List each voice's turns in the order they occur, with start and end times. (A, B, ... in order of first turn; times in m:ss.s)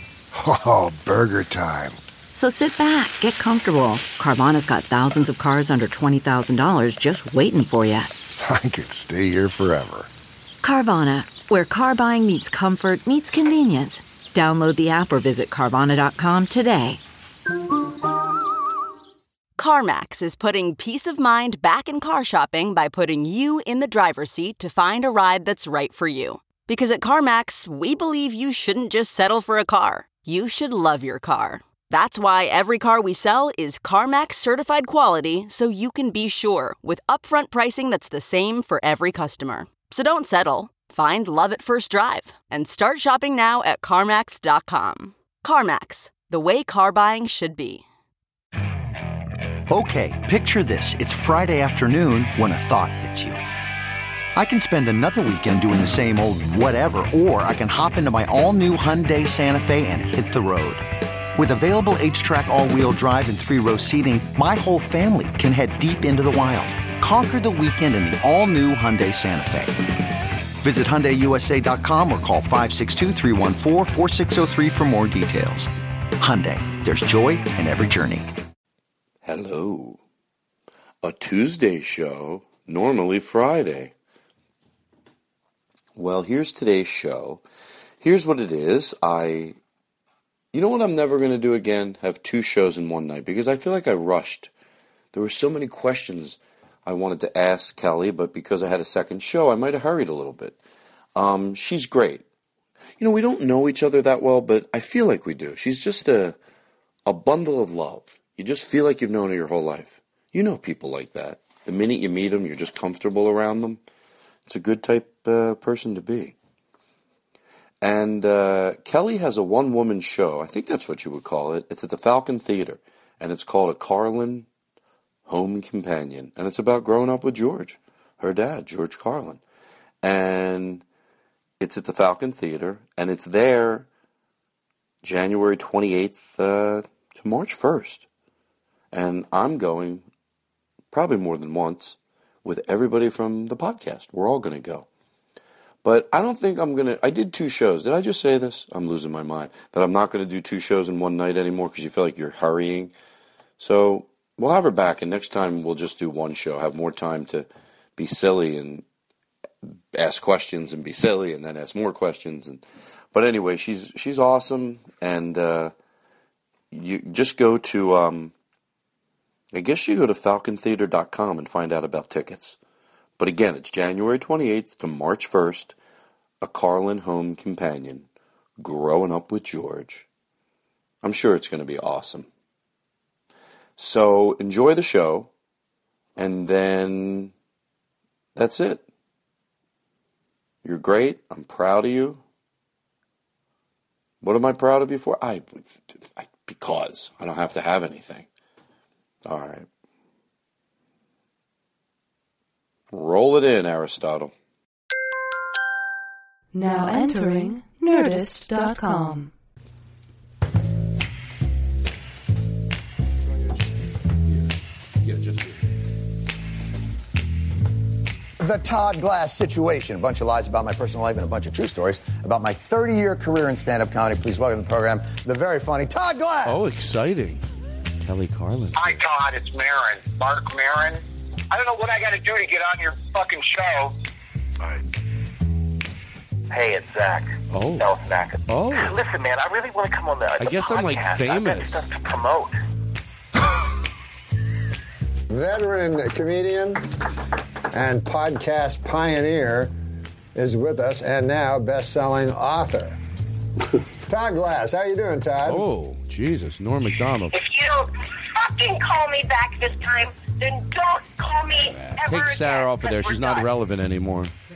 0:00.3-0:02.0 A
0:02.3-0:08.1 B
0:08.4-0:10.1 A
0:10.6-0:17.0 B
0:19.6-0:47.8 C
0:49.7-0:53.4 D
0:54.4-1:00.8 D
1:01.4-1:09.9 D
1:10.6-1:18.3 D
1:19.2-1:20.0 E
1:21.0-1:23.9 E
1:26.0-1:27.4 E
1:28.0-1:29.6 E
1:30.5-1:34.5 E
1:35.1-1:40.6 E
1:41.2-1:42.2 E
1:43.0-1:46.4 E
1:47.1-1:53.8 E
1:54.5-1:56.4 E
1:57.8-2:04.5 E
2:05.3-2:09.4 E
2:10.0-2:10.8 E
2:11.6-2:13.9 E
2:15.0-2:18.1 E
2:18.9-2:20.0 E
2:20.9-2:24.9 E
2:25.8-2:32.9 E
2:33.6-2:38.8 E
2:39.9-2:45.7 E
2:46.7-2:48.3 E
2:49.5-2:52.6 E
2:53.2-2:55.8 E
2:56.4-2:58.1 E
2:58.6-3:00.1 E
3:01.0-3:02.3 E
3:03.8-3:05.3 E
3:06.2-3:07.3 E
3:08.4-3:08.8 E
3:10.6-3:12.2 E
3:14.2-3:18.3 E
3:19.2-3:19.7 E
3:22.9-3:24.3 E
3:26.5-3:29.3 F
3:38.4-3:46.6 G
3:46.4-3:47.4 H
3:48.0-3:49.0 H
3:48.8-3:54.0 I
3:56.5-4:02.6 I
3:57.5-3:57.9 H
3:58.5-3:59.0 H
4:00.4-4:01.9 H
4:05.3-4:06.8 J
4:07.7-4:09.7 J
4:10.4-4:13.0 J
4:14.0-4:15.6 J
4:15.5-4:17.4 H
4:17.3-4:23.4 K
4:21.8-4:24.3 H